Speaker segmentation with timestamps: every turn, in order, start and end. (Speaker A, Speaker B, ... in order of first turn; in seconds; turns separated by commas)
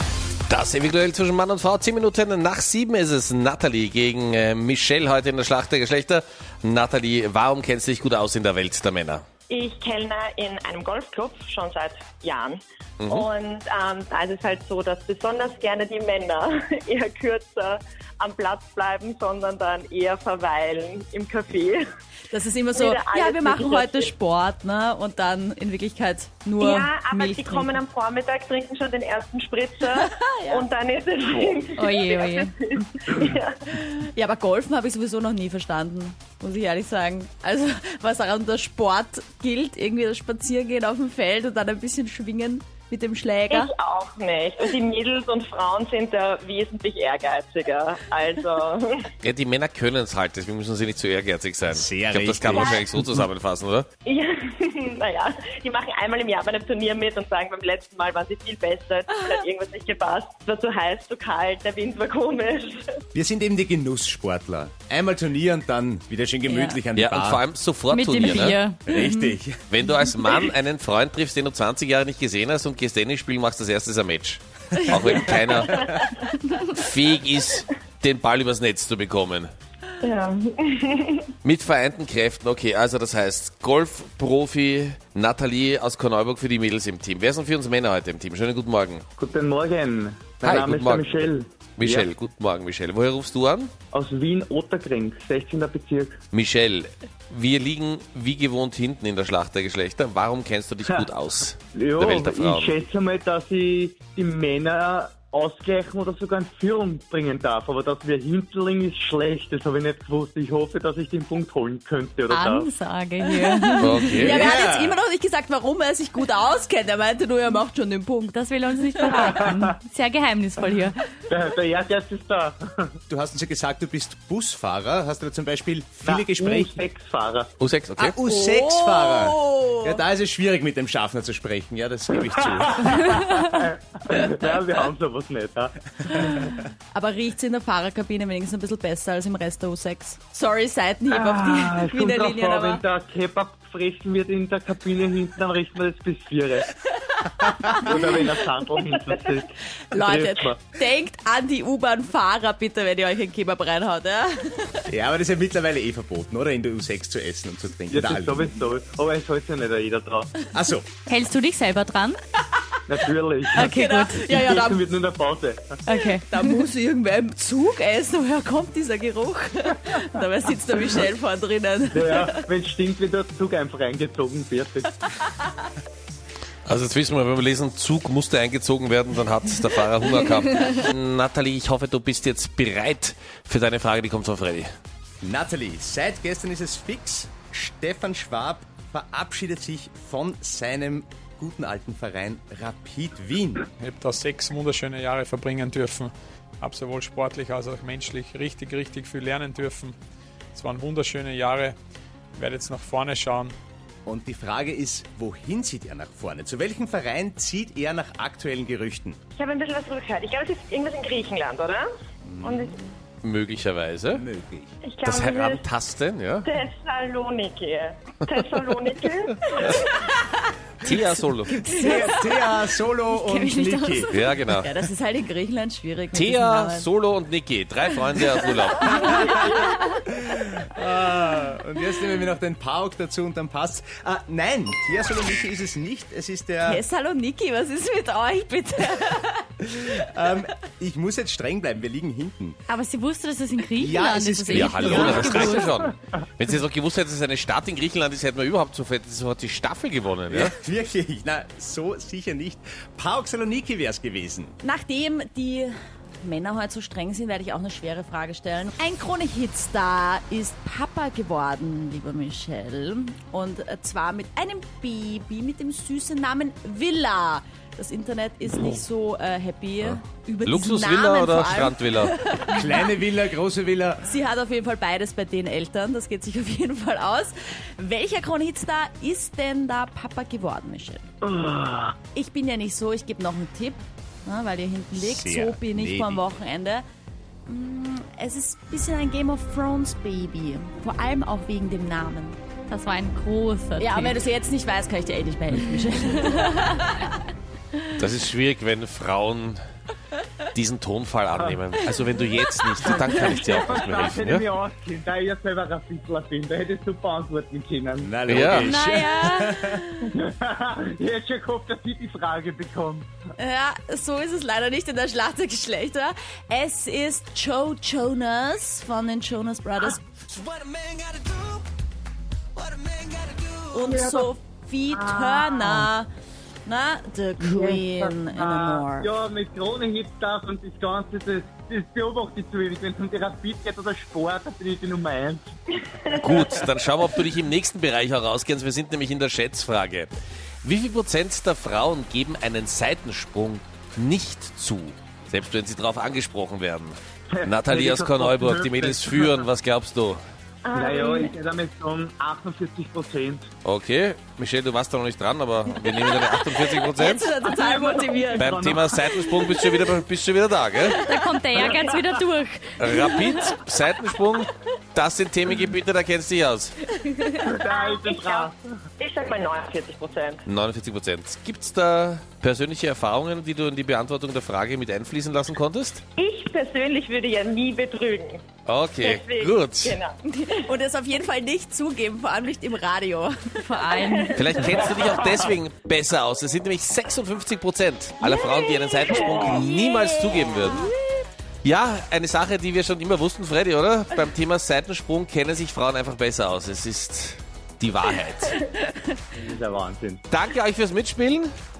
Speaker A: 0.5-9.2, Speaker B: 9.5-21.8, Speaker A: 13.0-13.3, Speaker C: 22.3-27.8, Speaker B: 22.7-24.1, Speaker B: 26.6-33.6, Speaker C: 29.9-30.7, Speaker D: 31.8-32.5, Speaker C: 33.8-43.7, Speaker B: 43.5-49.1, Speaker A: 49.2-53.9, Speaker E: 51.7-53.3, Speaker B: 54.1-62.8, Speaker E: 63.1-67.4, Speaker C: 66.5-66.8, Speaker A: 67.0-68.6, Speaker D: 67.9-69.4, Speaker E: 68.9-69.6, Speaker A: 69.7-75.8, Speaker A: 76.6-79.5, Speaker B: 80.0-81.3, Speaker A: 81.4-89.0, Speaker F: 89.2-92.1, Speaker A: 90.4-93.7, Speaker F: 93.9-96.2, Speaker A: 96.3-102.7, Speaker F: 101.7-112.7, Speaker D: 112.3-114.3, Speaker C: 113.3-118.4, Speaker A: 113.8-114.4, Speaker E: 114.3-115.0, Speaker D: 118.3-121.0, Speaker F: 121.3-122.9, Speaker E: 123.1-126.8, Speaker F: 126.0-127.5, Speaker A: 127.6-128.2, Speaker E: 128.0-133.0, Speaker C: 128.2-130.0, Speaker F: 132.5-136.5, Speaker C: 136.9-142.8, Speaker F: 141.1-146.7, Speaker F: 147.7-150.6, Speaker C: 147.9-148.2, Speaker C: 149.9-154.8, Speaker E: 154.9-158.4, Speaker F: 157.9-160.3, Speaker E: 160.5-160.9, Speaker D: 161.1-162.2, Speaker F: 162.9-165.8, Speaker D: 163.5-164.3, Speaker C: 163.6-164.8, Speaker D: 165.9-166.6, Speaker C: 165.9-172.3, Speaker F: 171.9-175.0, Speaker A: 176.7-184.7, Speaker E: 185.2-193.7, Speaker G: 193.8-200.0, Speaker G: 200.5-201.8, Speaker G: 202.4-203.6, Speaker E: 204.1-209.2, Speaker B: 209.4-211.9, Speaker E: 212.3-212.7, Speaker B: 212.4-212.8, Speaker A: 213.2-214.2, Speaker E: 214.1-214.7, Speaker B: 214.9-215.7, Speaker A: 215.1-216.5, Speaker B: 216.4-219.8, Speaker C: 219.6-226.9, Speaker A: 220.8-221.5, Speaker E: 221.7-224.1, Speaker A: 224.1-224.7, Speaker A: 226.1-229.4, Speaker C: 228.8-230.1, Speaker E: 228.9-236.8, Speaker C: 236.6-240.0, Speaker E: 239.8-242.6, Speaker D: 242.7-245.7, Speaker E: 243.8-245.7, Speaker A: 244.5-250.5, Speaker E: 250.3-254.6, Speaker C: 254.6-272.9, Speaker A: 269.8-272.1, Speaker E: 272.5-274.1, Speaker C: 274.0-281.1, Speaker F: 281.2-281.9, Speaker C: 282.1-286.8, Speaker E: 284.9-286.3, Speaker C: 287.5-292.4, Speaker D: 292.7-294.2, Speaker C: 293.8-297.3, Speaker A: 298.0-299.6, Speaker A: 300.5-304.4, Speaker F: 302.8-308.5, Speaker E: 308.0-309.8, Speaker A: 308.3-308.7, Speaker D: 308.6-309.4, Speaker C: 308.8-309.7, Speaker F: 310.1-313.1, Speaker C: 313.4-320.0, Speaker A: 320.3-321.6, Speaker A: 322.6-323.6, Speaker C: 323.7-326.1, Speaker F: 323.9-324.3, Speaker F: 324.9-325.9, Speaker C: 326.6-329.1, Speaker F: 327.4-335.5, Speaker A: 336.2-340.1, Speaker A: 340.6-350.2, Speaker F: 347.3-349.4, Speaker B: 350.7-351.3, Speaker F: 350.7-353.5, Speaker A: 353.6-357.3, Speaker C: 355.9-358.7, Speaker F: 357.4-359.3, Speaker A: 358.4-361.0, Speaker C: 359.3-359.8, Speaker C: 360.9-361.4, Speaker D: 361.1-363.0, Speaker F: 361.6-362.0, Speaker A: 362.8-366.8, Speaker C: 367.0-367.3, Speaker F: 367.4-368.6, Speaker B: 367.7-368.5, Speaker B: 369.0-370.4, Speaker A: 370.5-376.0, Speaker B: 376.2-378.4, Speaker A: 378.7-380.0, Speaker B: 379.0-380.6, Speaker C: 380.5-383.7, Speaker D: 383.6-384.3, Speaker A: 384.3-390.9, Speaker C: 388.2-390.9, Speaker A: 391.6-398.6, Speaker F: 399.3-400.2, Speaker A: 400.3-401.5